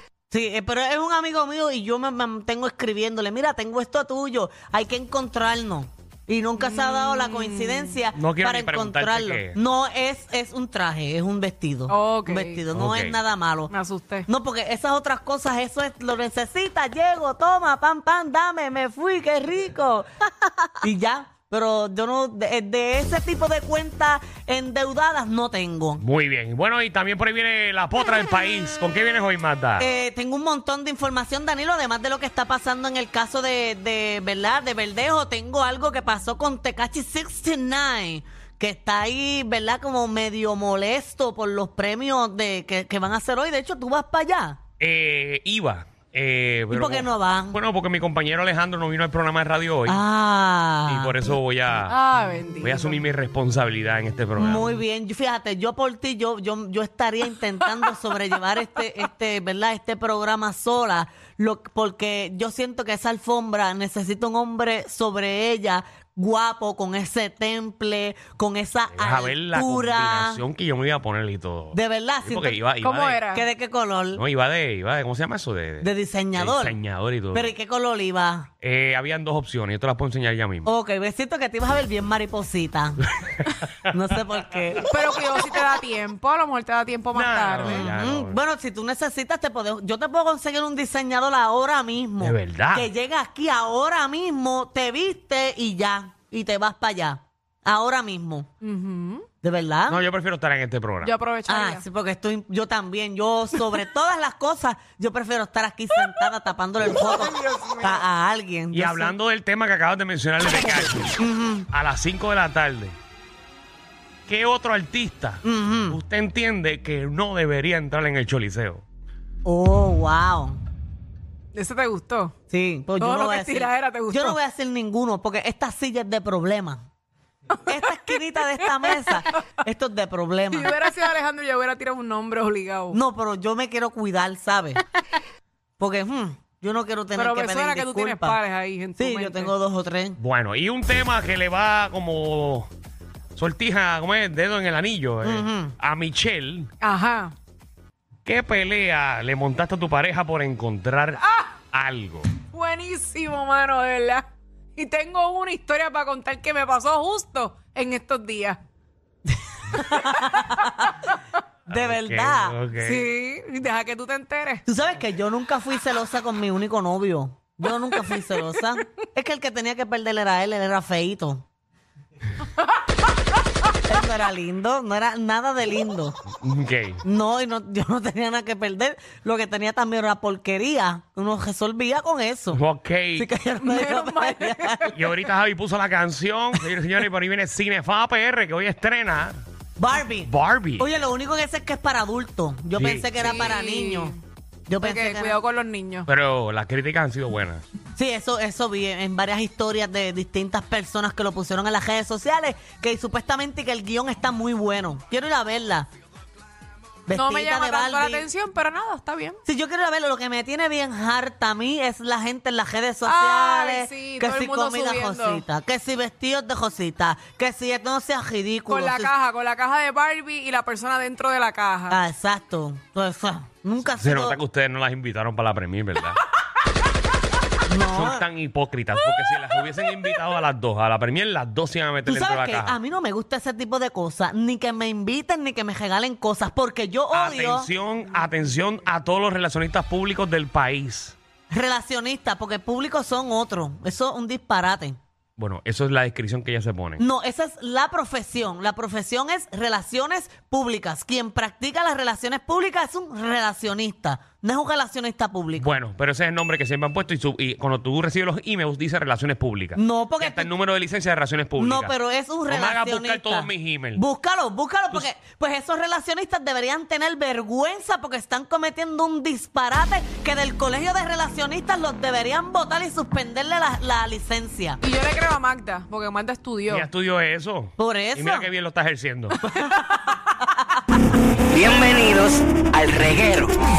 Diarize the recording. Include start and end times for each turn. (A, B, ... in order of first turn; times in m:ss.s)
0:00.3-0:13.7 A
0:06.6-0:08.0 B
0:08.1-0:09.6 C
0:11.9-0:12.6 B
0:12.7-0:13.2 C
0:13.7-0:14.3 B
0:14.3-0:26.0 A
0:26.0-0:29.8 C
0:29.8-0:44.6 A
0:44.8-0:50.0 C
0:46.7-0:47.6 A
0:49.8-0:51.3 A
0:50.9-0:52.0 C
0:51.8-0:53.0 B
0:52.6-0:54.7 C
0:54.4-1:10.4 A
1:08.9-1:13.2 C
1:11.7-1:12.6 A
1:12.8-1:13.4 B
1:13.3-1:14.2 A
1:14.1-1:17.5 C
1:15.8-1:16.8 A
1:17.3-1:18.5 A
1:18.6-1:20.7 C
1:20.6-1:23.0 A
1:23.2-1:23.9 C
1:23.9-1:24.9 A
1:24.9-1:27.9 B
1:27.1-1:28.4 C
1:27.6-1:38.5 A
1:32.2-1:32.9 C
1:38.6-1:39.2 B
1:39.4-1:40.0 A
1:39.9-1:41.1 C
1:41.0-1:41.8 B
1:41.5-1:49.1 A
1:46.9-1:48.0 B
1:48.7-1:51.2 C
1:51.2-1:51.7 A
1:51.7-1:53.0 C
1:54.3-1:58.8 C
1:55.4-1:56.0 A
1:59.4-2:00.6 A
2:01.5-2:02.3 B
2:02.5-2:06.8 A
2:03.0-2:04.4 B
2:07.6-2:10.7 A
2:07.8-2:09.4 B
2:10.5-2:13.0 B
2:12.9-2:14.8 A
2:15.8-2:18.4 A
2:17.1-2:19.5 B
2:19.0-2:20.2 A
2:20.2-2:22.7 C
2:23.4-2:26.7 C
2:25.2-2:25.7 A
2:26.8-2:27.3 B
2:28.2-2:32.3 C
2:32.5-2:38.6 B
2:39.3-2:41.0 A
2:39.8-2:40.7 B
2:41.7-2:42.6 A
2:41.7-2:43.0 C
2:42.8-2:44.6 B
2:44.7-2:51.4 A
2:53.9-2:56.2 A
2:56.4-2:57.0 C
2:57.0-3:02.6 A
3:02.5-3:03.3 C
3:03.2-3:04.9 A
3:03.6-3:05.2 B
3:04.9-3:09.4 C
3:09.8-3:14.1 A
3:10.2-3:10.9 C
3:12.7-3:13.4 C
3:13.2-3:14.2 B
3:14.7-3:15.4 A
3:14.8-3:16.1 B
3:16.0-3:17.6 C
3:17.9-3:25.9 A
3:27.1-3:28.3 A
3:27.1-3:29.4 B
3:29.4-3:39.1 A
3:33.0-3:35.4 B
3:38.7-3:42.0 B
3:41.9-3:44.4 A
3:44.0-3:46.2 C
3:47.6-3:48.2 A
3:47.9-3:52.8 C
3:52.0-3:57.7 A
3:57.1-4:01.2 C
4:01.5-4:05.0 A
4:05.4-4:07.0 C
4:07.0-4:15.8 A
4:15.6-4:21.9 C
4:19.8-4:20.5 A
4:21.6-4:34.8 A
4:22.5-4:24.0 C
4:34.8-4:36.9 B
4:36.7-4:39.4 C
4:37.8-4:38.5 A
4:39.4-4:40.3 B
4:41.5-4:43.6 D